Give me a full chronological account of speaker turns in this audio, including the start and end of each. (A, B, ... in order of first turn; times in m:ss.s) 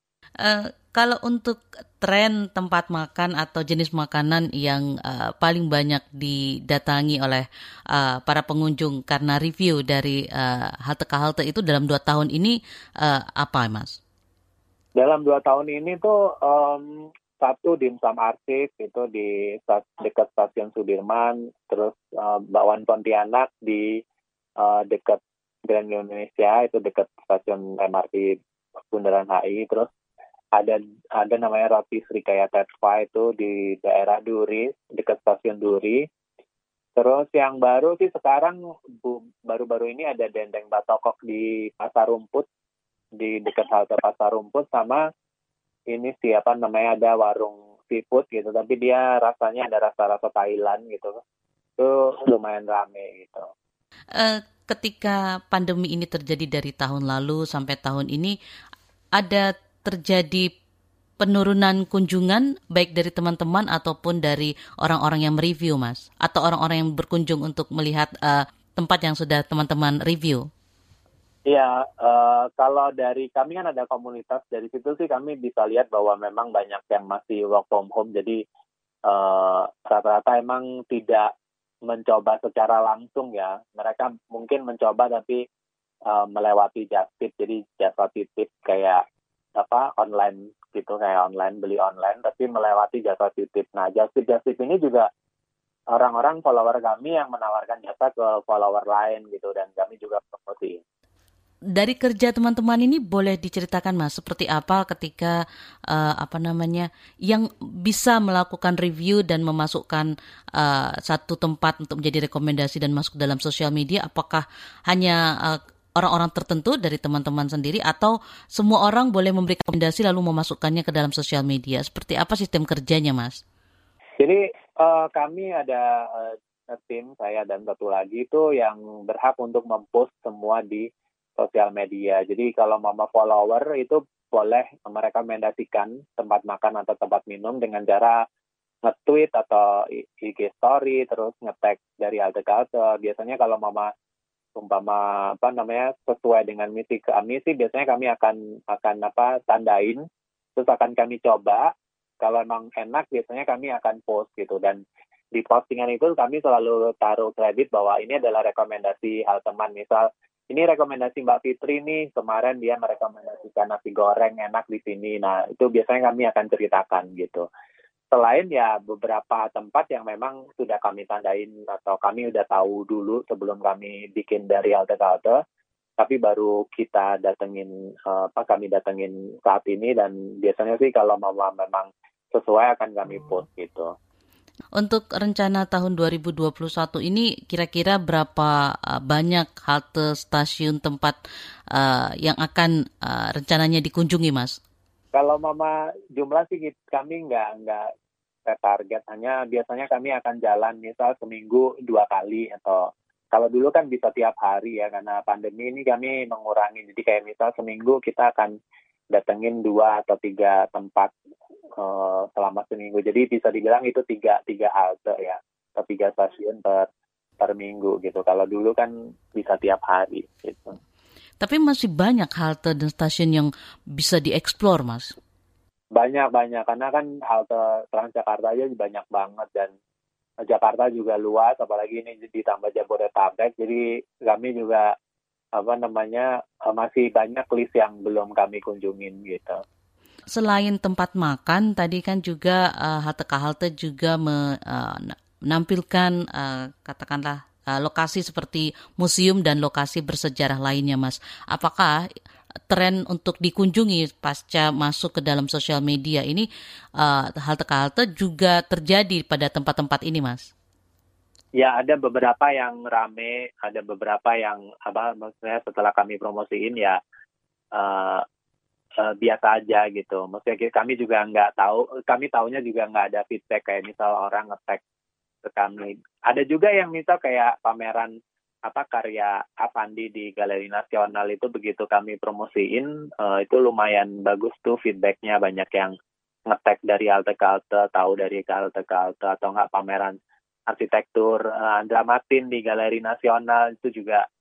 0:00.4-0:14.0 A
0:15.0-0:16.9 B
0:17.4-0:24.0 B
0:24.6-0:28.4 B
0:28.9-0:29.9 B
0:30.6-0:36.0 B
0:37.0-0:42.4 B
0:43.2-0:45.0 B
0:45.9-0:51.2 B
0:51.8-0:53.4 B
0:54.1-0:58.4 A
0:59.2-1:00.5 A
1:01.2-1:10.4 A
1:11.5-1:18.4 B
1:19.1-1:21.3 B
1:21.9-1:25.4 B
1:26.1-1:29.0 B
1:29.6-1:35.1 B
1:35.9-1:40.8 B
1:41.7-1:45.3 A
1:45.9-2:03.4 A
2:04.2-2:10.8 B
2:11.4-2:18.2 B
2:18.8-2:23.9 B
2:24.6-2:30.0 B
2:30.6-2:34.8 B
2:35.3-2:47.4 B
2:48.1-2:55.4 B
2:56.0-3:03.9 B
3:04.8-3:11.2 A
3:11.7-3:14.6 A
3:15.1-3:17.9 B
3:18.5-3:28.5 B
3:29.1-3:31.1 B
3:31.8-3:36.9 B
3:37.4-3:40.8 B
3:41.4-3:45.1 A
3:45.9-3:49.7 B
3:50.4-3:54.9 B
3:55.6-3:59.6 B
4:00.3-4:12.0 A
4:12.7-4:16.4 A
4:17.0-4:20.5 A
4:21.6-4:27.0 B
4:27.7-4:28.2 B
4:29.0-4:34.8 B
4:35.4-4:38.1 B
4:38.7-4:45.9 B
4:46.5-4:50.2 B
4:50.7-4:54.2 B